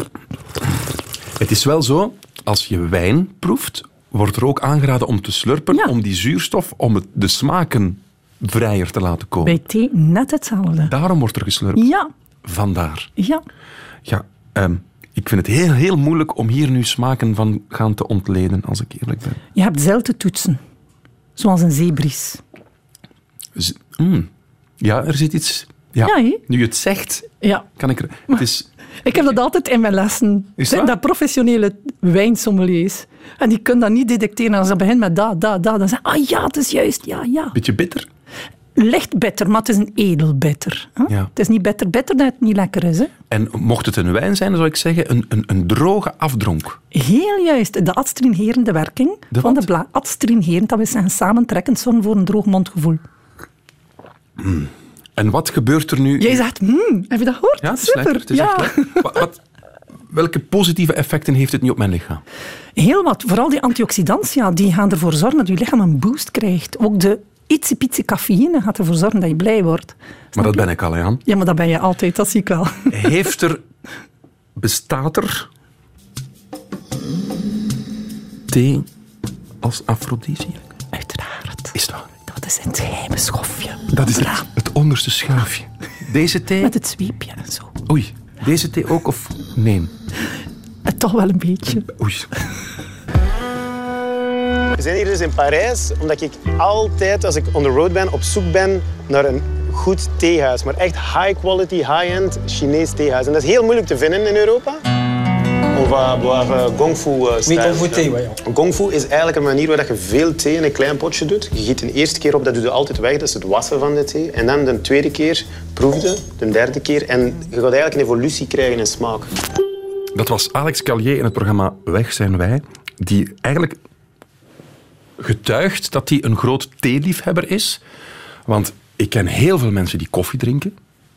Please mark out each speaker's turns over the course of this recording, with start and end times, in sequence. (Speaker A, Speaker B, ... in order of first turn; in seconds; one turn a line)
Speaker A: 1.4-9.6
Speaker B: 9.4-10.9
Speaker A: 10.9-11.8
Speaker B: 11.8-12.1
Speaker A: 12.4-13.1
Speaker B: 13.2-13.4
Speaker A: 14.1-19.4
Speaker B: 19.5-20.6
Speaker B: 21.4-22.4
Speaker A: 23.6-24.3
Speaker A: 24.8-28.7
Speaker B: 26.0-26.4
Speaker B: 27.4-27.7
Speaker B: 29.0-37.5
Speaker A: 30.6-30.9
Speaker A: 37.5-38.0
Speaker B: 38.8-43.1
Speaker A: 43.3-46.8
Speaker B: 46.9-53.0
Speaker A: 49.3-49.7
Speaker A: 54.4-56.4
Speaker B: 56.2-59.2
Speaker A: 57.6-59.4
Speaker A: 60.1-62.2
Speaker B: 62.8-70.7
Speaker A: 70.4-71.2
Speaker B: 71.2-73.2
Speaker A: 72.9-73.6
Speaker A: 74.6-75.5
Speaker A: 78.5-78.9
Speaker A: 79.6-80.6
Speaker B: 80.9-81.7
Speaker A: 81.7-82.1
Speaker B: 82.2-84.4
Speaker A: 83.9-86.7
Speaker B: 86.6-87.7
Speaker A: 87.9-89.9
Speaker B: 90.8-91.9
Speaker A: 91.8-92.3
Speaker C: 94.8-104.8
Speaker C: 105.7-119.3
Speaker A: 120.1-123.8
Speaker A: 125.2-127.8
Speaker A: 128.5-130.7